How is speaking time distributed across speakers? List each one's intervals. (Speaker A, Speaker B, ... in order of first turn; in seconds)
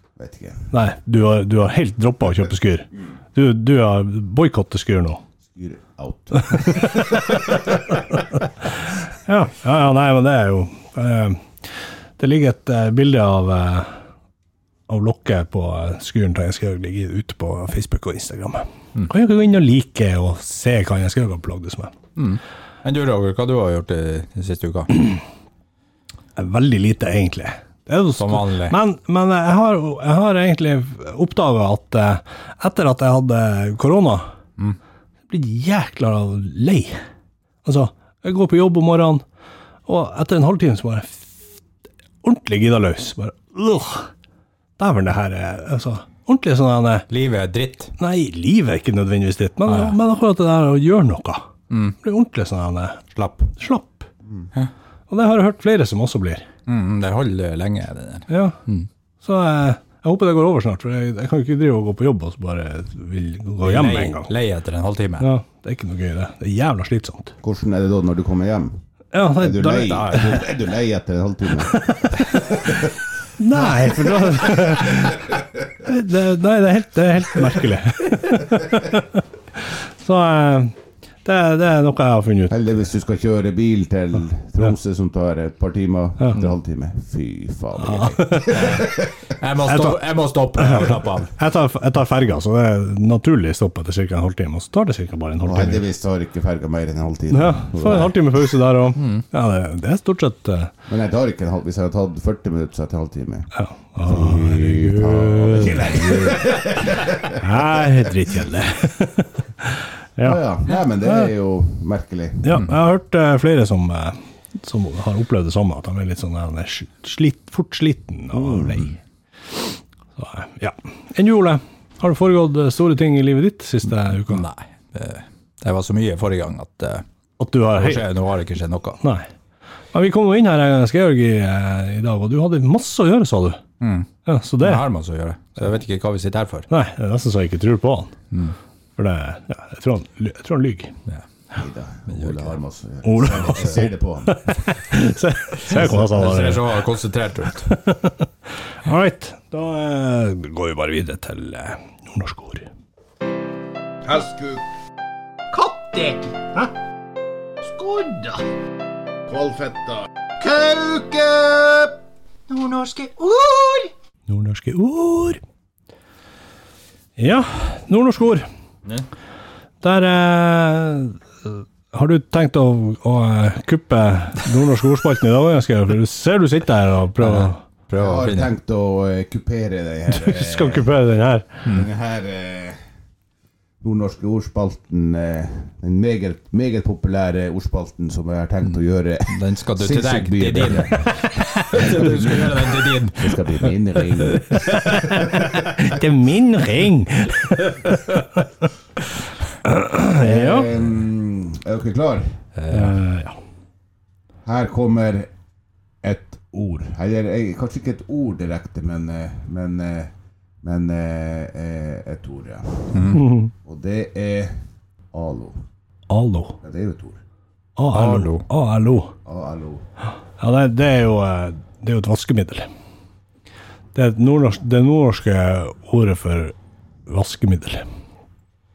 Speaker A: 0.2-0.7, 5.4-7.3, 67.4-68.8, 69.3-72.9, 73.6-75.1, 82.5-89.1, 95.4-98.2, 100.9-107.4, 110.2-112.6, 118.3-118.8, 141.5-144.6, 154.1-154.6, 159.3-160.1, 160.9-161.9, 177.9-180.9, 181.7-182.8, 183.8-191.1, 191.7-195.6, 200.1-202.4, 204.4-205.3, 206.0-215.6, 216.6-217.2, 219.2-219.8
Speaker B: 0.7-5.2, 6.5-7.6, 9.2-11.5, 12.2-13.9, 14.9-21.9, 26.4-34.3, 35.3-37.0, 37.6-39.2, 39.9-41.4, 42.2-44.1, 44.8-47.0, 48.0-51.5, 52.0-53.0, 53.5-54.0, 55.1-56.5, 58.3-58.5, 59.2-64.3, 65.2-67.3, 69.1-70.4, 71.7-72.2, 73.4-75.2, 75.8-82.5, 87.8-88.6, 89.6-90.0, 90.6-95.8, 97.3-100.7, 103.5-106.4, 107.4-110.4, 111.0-111.3, 112.4-119.0, 120.2-124.4, 127.4-128.1, 129.0-129.3, 129.9-133.6, 134.2-134.8, 136.7-138.1, 139.0-140.9, 143.0-146.8, 147.7-148.3, 148.8-152.7, 164.3-165.4, 167.2-168.5, 169.8-177.6, 180.1-181.5, 194.5-198.4, 199.6-200.7, 202.7-203.4, 213.1-213.5, 216.1-216.6, 217.8-219.1, 220.4-222.7, 223.9-226.5, 227.1-227.8
Speaker C: 22.1-24.9, 28.1-28.8, 47.1-47.9, 49.7-50.0, 51.7-52.0, 53.1-53.5, 56.6-58.9, 63.6-65.3, 69.8-70.4, 88.5-91.3, 99.0-99.2, 124.2-127.0, 127.7-129.0, 133.8-134.1, 134.6-136.7, 142.1-142.6, 145.6-147.8, 177.2-178.5, 189.3-193.7, 202.6-202.9, 212.9-213.2, 217.9-218.4
Speaker D: 155.6-156.3, 162.5-163.8